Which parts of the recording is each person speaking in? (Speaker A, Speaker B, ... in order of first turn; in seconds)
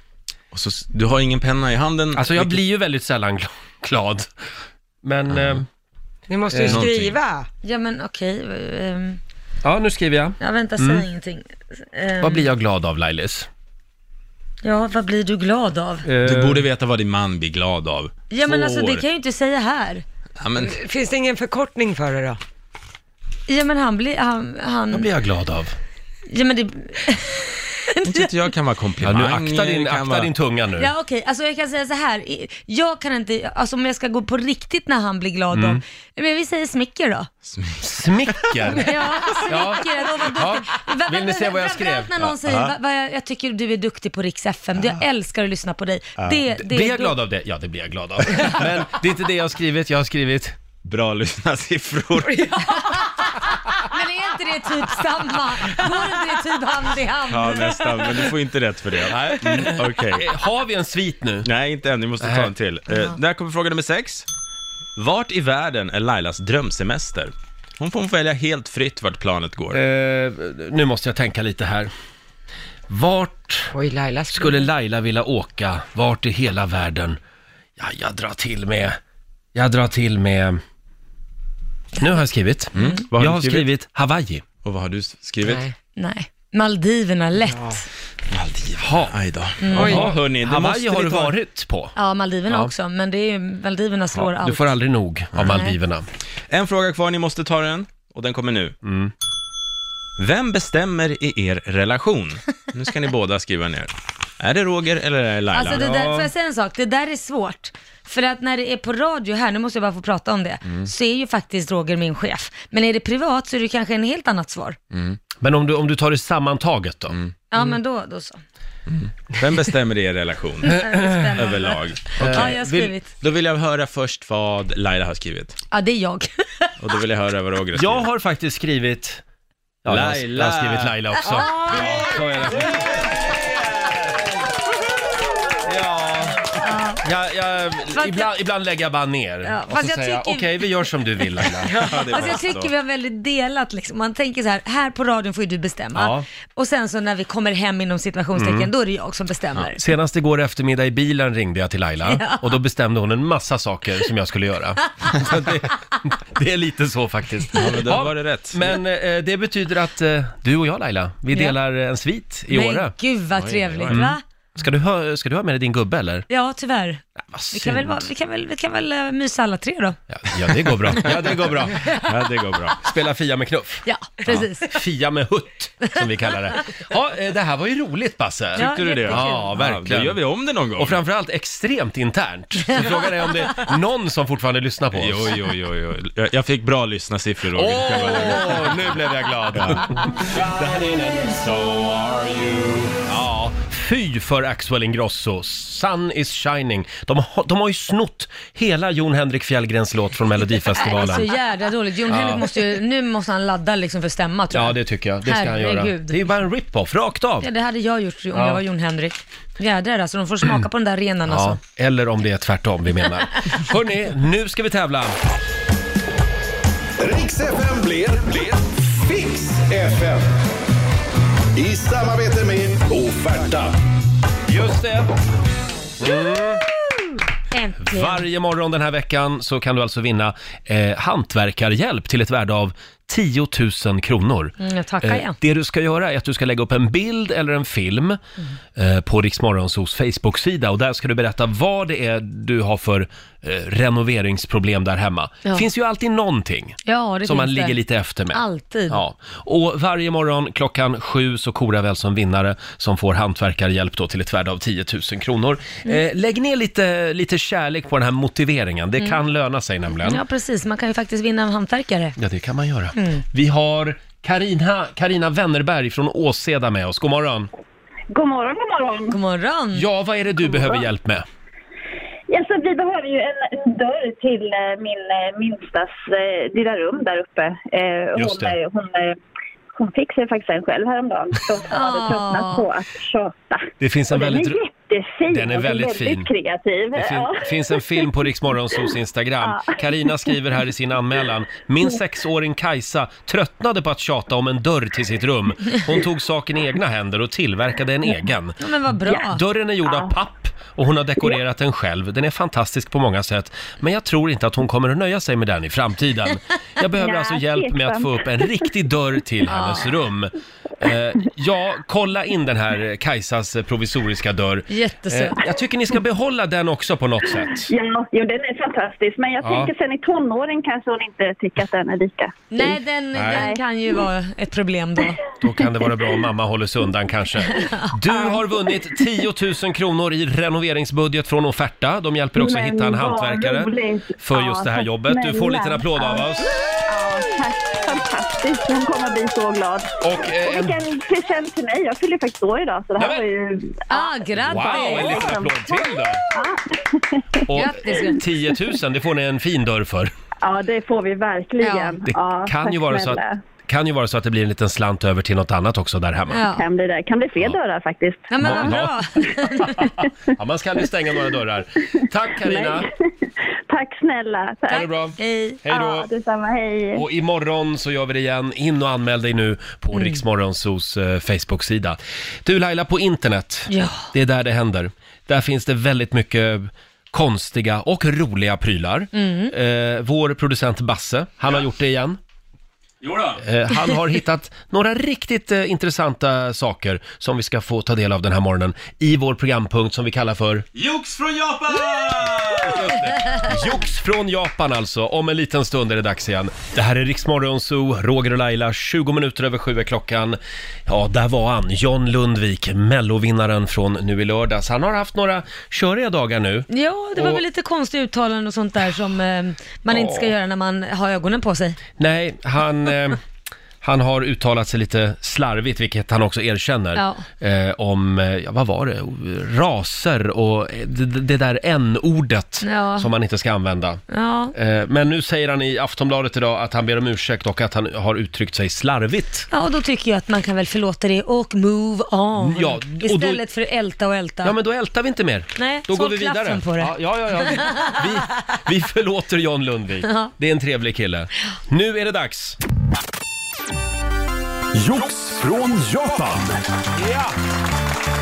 Speaker A: 0.5-2.6, 5.3-5.6, 6.6-7.2, 16.2-19.0, 20.4-20.8, 28.0-30.3, 37.5-37.8, 38.4-38.7, 42.4-42.7, 50.8-52.6, 57.3-60.3, 61.4-64.2, 65.0-69.8, 82.7-83.7, 84.6-85.6, 88.3-91.3, 96.5-98.7, 100.2-105.8, 114.9-115.2, 118.9-120.8, 121.3-122.5, 123.2-125.6, 126.8-128.1, 129.9-133.9, 141.6-142.7, 155.1-155.7, 157.6-158.7, 163.3-164.0, 171.0-172.8, 178.6-181.0, 184.9-189.0, 189.5-190.6, 191.4-192.6, 383.0-383.4, 390.7-393.1
Speaker B: 2.1-4.3, 5.0-5.7, 6.5-6.8, 9.6-11.1, 12.2-13.5, 16.0-16.7, 24.9-25.7, 29.0-30.9, 35.5-35.8, 37.8-42.3, 46.6-50.6, 59.1-61.5, 62.2-62.5, 69.7-71.9, 72.9-73.7, 74.3-77.2, 77.8-79.0, 79.5-80.6, 82.0-84.4, 88.8-89.2, 89.7-91.9, 92.5-92.7, 94.1-96.0, 98.8-99.1, 105.7-106.3, 115.4-117.2, 120.8-121.3, 122.2-122.9, 127.7-129.2, 129.8-134.3, 135.6-141.7, 145.9-146.2, 148.3-148.7, 149.8-162.9, 163.9-166.2, 167.2-168.1, 170.1-171.8, 172.8-180.2, 180.8-185.4, 187.5-191.4, 193.0-201.3, 202.1-202.5, 204.5-207.5, 208.3-208.6, 211.2-215.2, 224.5-225.1, 226.0-226.6, 227.8-238.2, 238.7-260.2, 262.2-267.5, 269.7-271.2, 278.1-278.6, 283.8-284.6, 285.3-286.3, 286.9-317.7, 319.4-319.7, 323.1-323.4, 325.4-336.5, 340.0-340.8, 343.0-343.2, 344.4-346.2, 347.5-350.1, 352.0-356.4, 358.4-358.9, 359.6-362.9, 364.7-366.1, 366.9-382.2, 383.4-390.6, 392.4-407.4, 409.9-410.3, 412.0-413.2, 413.8-424.0, 424.5-429.5, 432.4-433.4, 434.4-442.6, 446.9-447.3
Speaker C: 6.3-7.5, 20.6-22.4, 52.2-52.8, 73.7-74.7, 85.4-85.7, 89.8-90.1
Speaker D: 7.6-9.2, 10.4-12.5, 14.6-16.1, 18.3-20.0, 23.5-25.1, 26.3-28.3, 30.8-37.3, 38.7-47.2, 52.7-57.9, 86.0-87.8, 89.6-90.0, 92.0-94.7, 95.5-95.8, 105.5-114.8, 117.5-118.4, 120.6-123.1, 125.7-126.7, 131.3-132.0, 136.6-137.0, 137.9-138.3, 139.4-140.7, 141.4-149.8, 152.1-152.6, 162.5-164.2, 166.3-170.0, 173.8-174.8, 178.6-179.5, 200.7-206.2, 207.4-211.6, 226.0-228.2, 234.6-235.3, 246.8-247.8, 248.3-249.0, 260.0-262.2, 262.9-263.2, 269.1-269.9, 281.7-282.7, 298.6-299.4, 309.5-309.9, 314.7-315.4, 322.5-325.2, 327.6-327.9, 343.9-345.4, 347.5-348.2, 351.6-352.0, 356.3-356.6, 358.3-359.9, 364.7-365.6, 369.9-370.2, 373.7-374.1, 379.1-379.5, 406.7-411.8, 416.9-417.2, 422.6-423.1, 424.1-424.5, 429.5-434.6, 435.6-438.0, 440.0-440.3
Speaker E: 217.0-220.2, 221.6-223.7, 444.7-446.6
Speaker F: 268.1-269.1, 272.3-279.2, 279.7-288.2, 289.4-289.8, 299.8-300.1, 307.0-308.5, 317.5-322.3, 323.2-323.6, 332.3-336.3, 336.9-347.4, 350.4-353.4, 356.5-358.9, 362.4-362.9, 363.7-364.9, 365.7-367.0